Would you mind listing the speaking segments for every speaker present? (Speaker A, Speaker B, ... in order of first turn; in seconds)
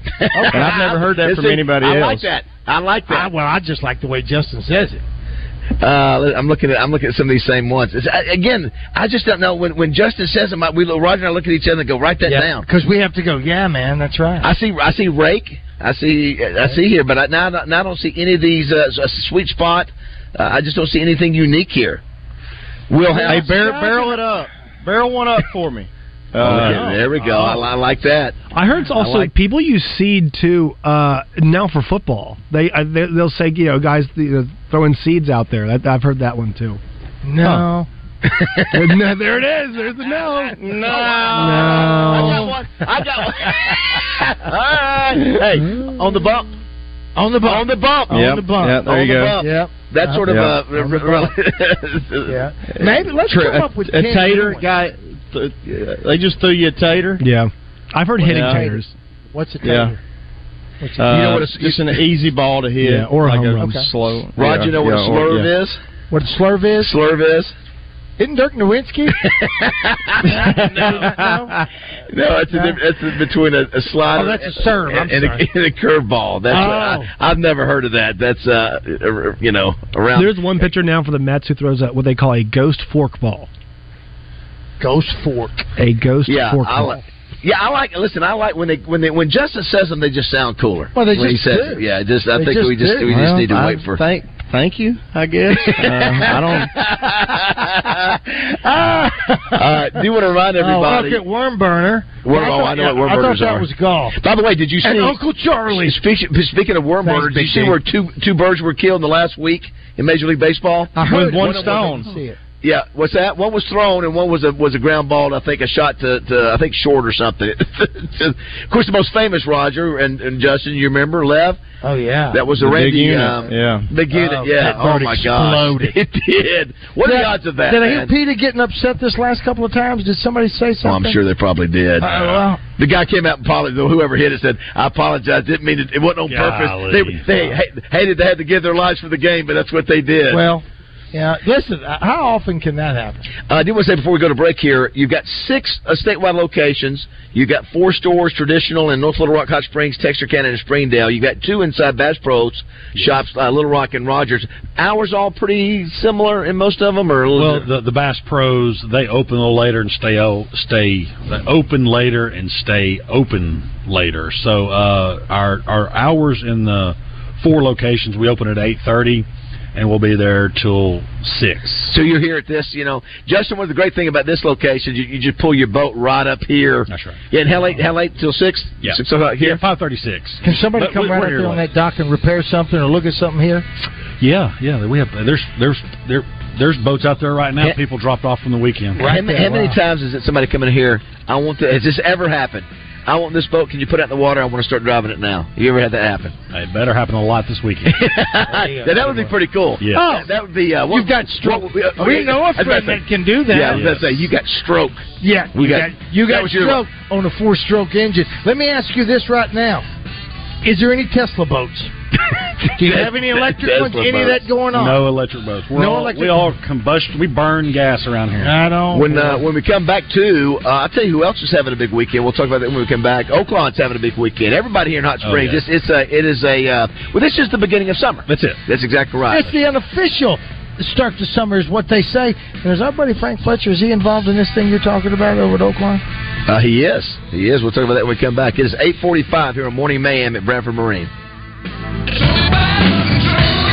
Speaker A: 0.2-3.3, 5.8-12.7, 14.4-22.0, 22.9-23.6, 26.4-28.4, 29.0-29.3, 41.0-46.5, 47.4-52.4, 61.1-62.0, 64.4-65.8, 66.8-67.5, 69.2-71.2, 72.1-80.7, 86.3-94.0, 95.6-98.2, 99.5-101.2, 102.2-105.2, 105.7-112.0, 112.6-121.6, 122.3-128.1, 130.8-140.4, 143.5-157.7, 171.9-179.6, 189.0-196.3, 197.9-206.8, 212.8-214.5, 218.9-229.5, 236.5-241.1
Speaker B: 0.3-0.9, 3.1-5.0, 12.2-14.5, 23.0-24.2, 26.4-27.6, 37.2-37.9, 40.9-42.5, 47.2-48.9, 49.4-51.3, 52.3-54.6, 58.2-58.8, 59.3-60.0, 60.8-61.4, 63.6-63.9, 66.1-66.9, 68.2-69.2, 70.2-71.6, 72.5-72.8, 74.1-75.5, 76.5-77.1, 84.8-85.7, 90.9-93.5, 98.6-99.7, 100.6-104.2, 104.8-106.0, 107.0-107.8, 110.9-112.4, 121.8-122.4, 124.1-126.0, 127.0-131.2, 132.0-132.6, 140.3-143.3, 180.4-183.7, 188.9-189.8, 198.5-199.3, 199.9-200.3, 200.9-203.9, 205.2-209.8, 210.6-211.9, 212.7-215.0, 215.7-216.5, 218.4-219.4, 229.3-236.0
Speaker C: 0.5-2.3, 23.2-27.0, 40.5-42.3, 48.1-49.4, 50.3-50.6, 52.7-57.2, 58.2-58.7, 59.6-60.0, 61.0-65.5, 70.8-71.5, 93.3-96.7, 111.0-112.1, 122.6-123.9
Speaker D: 28.5-36.8, 38.7-40.6, 41.3-42.5, 57.2-58.9, 62.8-63.8, 80.1-83.5, 85.8-87.0
Speaker E: 136.3-137.5, 157.3-171.9, 176.9-177.8, 178.8-181.7, 184.2-189.1, 196.5-197.9, 199.8-200.1, 203.7-204.3, 214.7-218.5, 225.2-225.6, 228.3-228.6